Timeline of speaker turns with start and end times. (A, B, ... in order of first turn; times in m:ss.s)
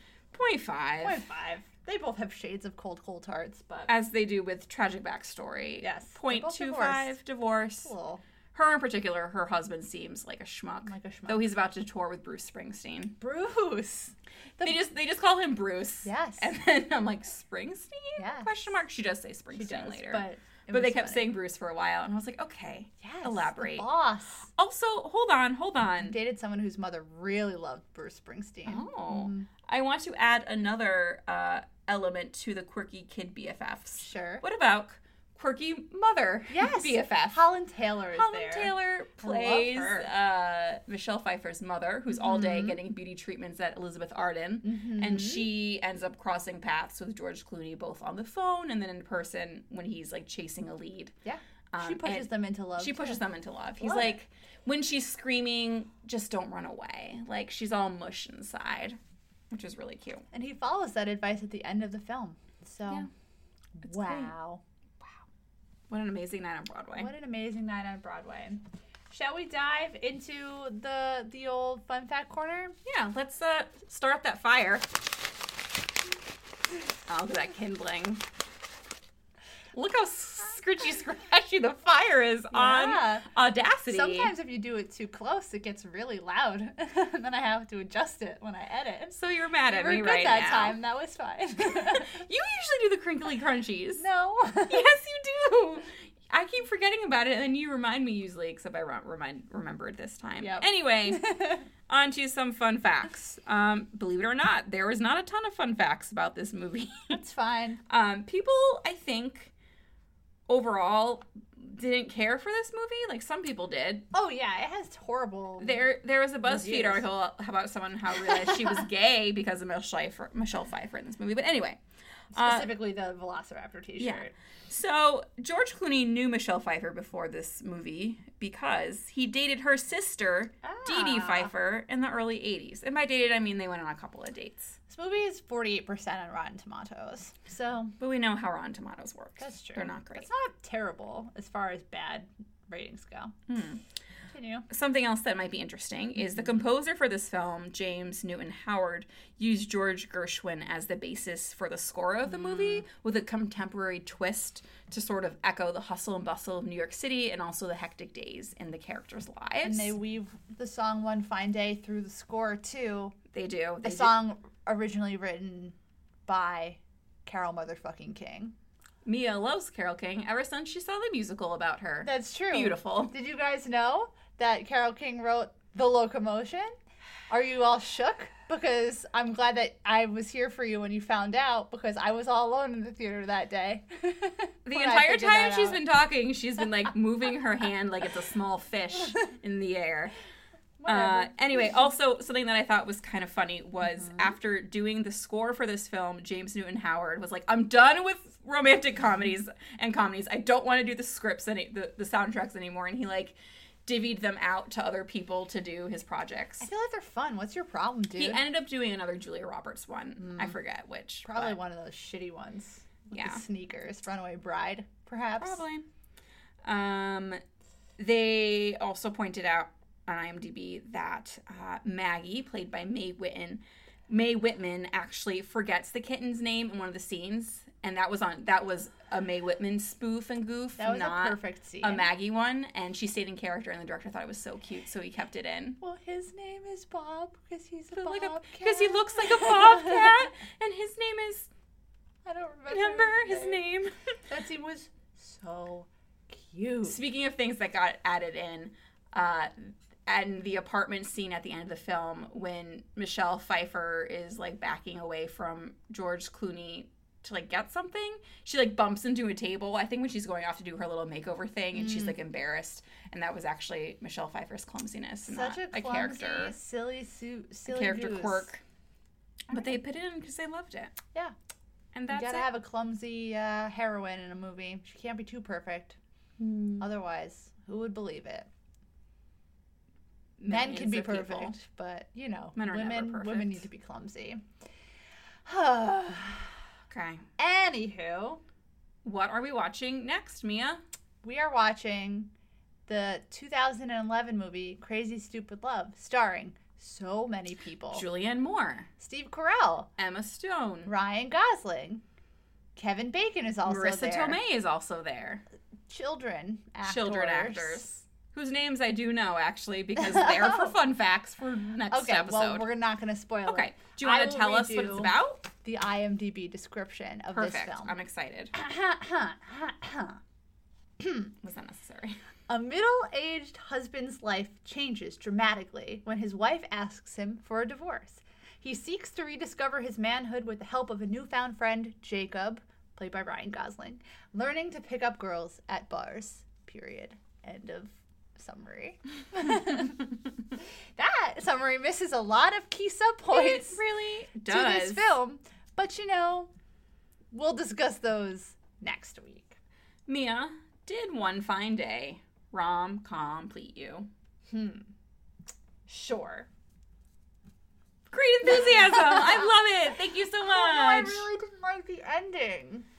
0:00.3-0:01.2 A
0:01.0-0:03.9 B
0:03.9-0:07.9 A
0:05.8-0:07.2 B
0:07.8-0:08.2 B
0:08.5-0:13.2 A
0:10.8-0:11.4 B
0:13.2-0:14.8 B
0:14.6-0:23.9 A
0:16.0-0:16.5 B
0:18.2-0:18.6 B
0:19.5-0:21.3 B
0:23.0-0:24.5 B
0:24.6-0:26.1 A
0:26.0-0:29.5 B
0:28.6-0:37.5 A
0:34.0-0:34.4 B
0:36.5-0:40.1 B
0:38.1-0:51.1 A
0:42.3-0:42.7 B
0:44.6-0:45.5 B
0:51.2-0:53.2 B
0:51.7-0:59.0 A
0:53.8-0:54.2 B
0:59.5-1:00.2 A
1:00.3-1:03.1 B
1:03.8-1:04.6 B
1:03.8-1:04.3 A
1:05.9-1:07.1 A
1:07.0-1:12.8 B
1:12.8-1:14.9 A
1:17.1-1:18.2 A
1:19.7-1:24.3 A
1:22.5-1:23.3 B
1:23.8-1:32.2 B
1:29.1-1:30.8 A
1:31.6-1:34.0 A
1:34.0-1:34.9 B
1:34.7-1:41.3 A
1:40.4-1:41.6 B
1:41.9-1:47.2 A
1:47.1-1:47.8 B
1:47.9-1:49.5 A
1:50.5-1:54.0 A
1:54.1-1:55.8 B
1:55.6-2:01.8 A
1:56.4-1:57.0 B
1:58.3-1:58.7 B
2:02.3-2:02.7 A
2:02.3-2:04.3 B
2:04.0-2:14.8 A
2:10.6-2:11.5 B
2:14.9-2:17.9 B
2:18.0-2:20.3 A
2:19.4-2:23.3 B
2:23.5-2:23.8 A
2:24.3-2:24.6 B
2:24.7-2:39.9 A
2:32.3-2:32.8 B
2:39.6-2:43.2 B
2:43.3-2:44.2 A
2:43.8-2:45.8 B
2:46.3-2:48.5 B
2:49.0-2:53.1 A
2:52.0-2:56.7 B
2:57.3-3:05.8 B
3:04.6-3:10.1 A
3:10.8-3:11.4 B
3:10.9-3:26.7 A
3:26.6-3:28.4 B
3:28.2-3:31.6 A
3:31.2-3:35.6 B
3:33.1-3:33.4 A
3:35.4-3:35.9 A
3:36.6-3:37.4 A
3:38.0-3:55.8 A
3:50.8-3:52.1 B
3:55.8-4:00.2 B
3:57.9-4:01.5 A
4:02.2-4:03.7 B
4:02.7-4:03.9 A
4:04.3-4:07.0 B
4:06.8-4:26.6 A
4:25.3-4:28.5 B
4:27.7-4:28.6 A
4:29.5-4:31.0 A
4:29.5-4:29.8 B
4:31.9-4:32.5 A
4:32.1-4:36.0 B
4:36.4-4:36.8 A
4:36.8-4:38.5 B
4:40.4-4:41.5 A
4:40.5-4:44.4 B
4:42.6-4:43.6 A
4:45.4-4:46.6 B
4:46.9-4:47.2 A
4:47.4-4:48.4 B
4:49.0-4:50.8 A
4:51.2-4:52.3 B
4:52.9-4:58.0 B
4:57.9-4:58.9 A
4:59.0-4:59.9 B
5:00.0-5:00.9 A
5:00.8-5:02.0 B
5:02.8-5:04.4 B
5:03.6-5:05.4 A
5:05.9-5:07.9 B
5:06.8-5:12.6 A
5:10.1-5:10.7 B
5:11.9-5:17.9 B
5:13.4-5:15.5 A
5:17.3-5:18.5 A
5:18.5-5:20.2 B
5:21.0-5:21.3 B
5:21.4-5:22.2 A
5:22.5-5:40.1 B
5:41.0-5:43.8 B
5:43.3-5:45.1 A
5:44.5-5:46.5 B
5:47.3-5:49.6 B
5:50.1-5:54.1 A
5:54.5-5:54.9 B
5:55.9-5:56.5 B
5:58.1-6:01.3 A
5:58.4-5:59.6 B
6:00.4-6:02.9 B